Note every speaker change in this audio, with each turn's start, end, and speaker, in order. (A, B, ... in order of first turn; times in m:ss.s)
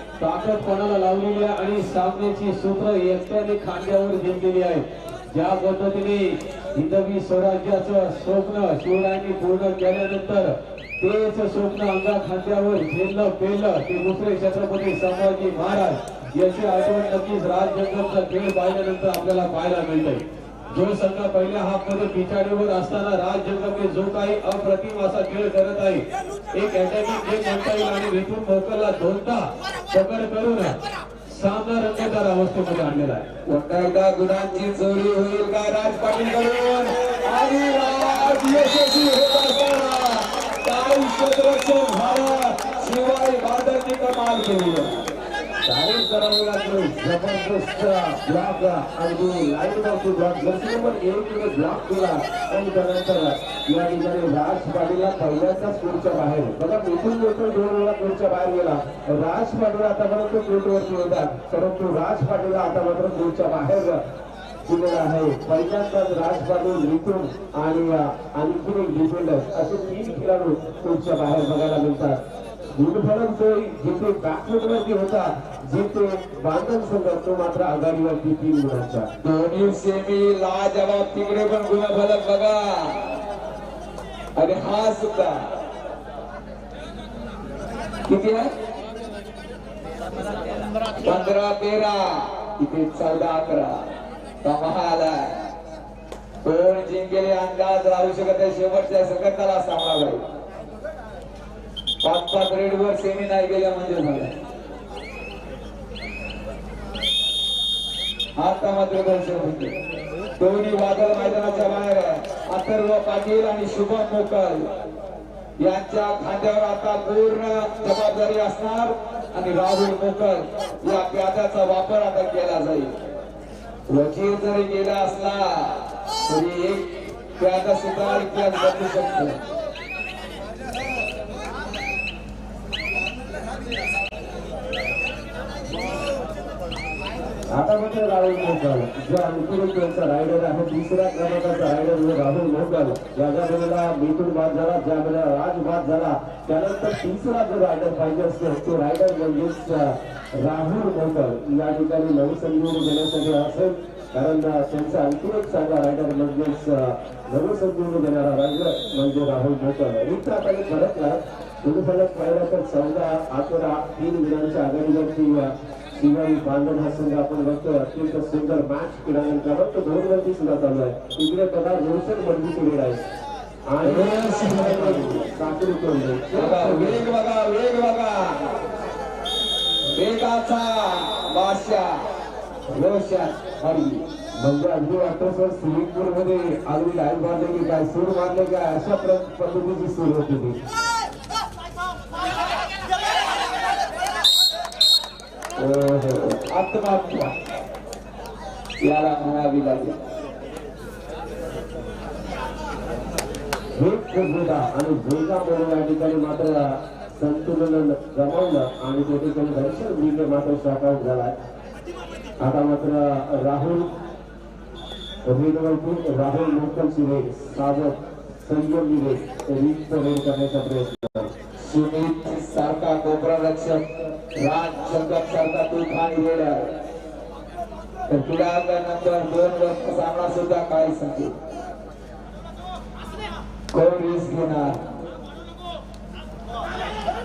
0:00.2-0:33.3 A
0:33.4-0:44.9 B
0:45.6-1:04.0 C
1:04.6-1:12.2 C
1:12.7-1:19.1 C
1:19.2-1:23.0 B
1:24.4-1:25.4 B
1:28.1-1:28.5 B
1:31.0-1:33.8 B
1:34.4-1:35.4 B
1:36.4-1:40.2 B
1:42.0-1:44.3 B
1:48.4-1:49.7 B
1:50.4-1:54.7 B
1:55.6-2:02.9 B
2:03.9-2:09.4 B
2:17.5-2:53.1 C
2:53.7-2:57.0 C
2:53.8-2:55.2 B
2:56.3-2:58.5 B
2:59.9-3:02.0 B
3:02.7-3:04.0 B
3:04.4-3:10.6 C
3:15.6-3:17.3 B
3:18.8-3:20.0 B
3:23.8-3:31.4 C
3:32.4-3:33.9 C
3:35.2-3:41.3 C
3:41.6-3:46.7 B
3:48.1-3:51.3 B
3:53.7-3:54.8 B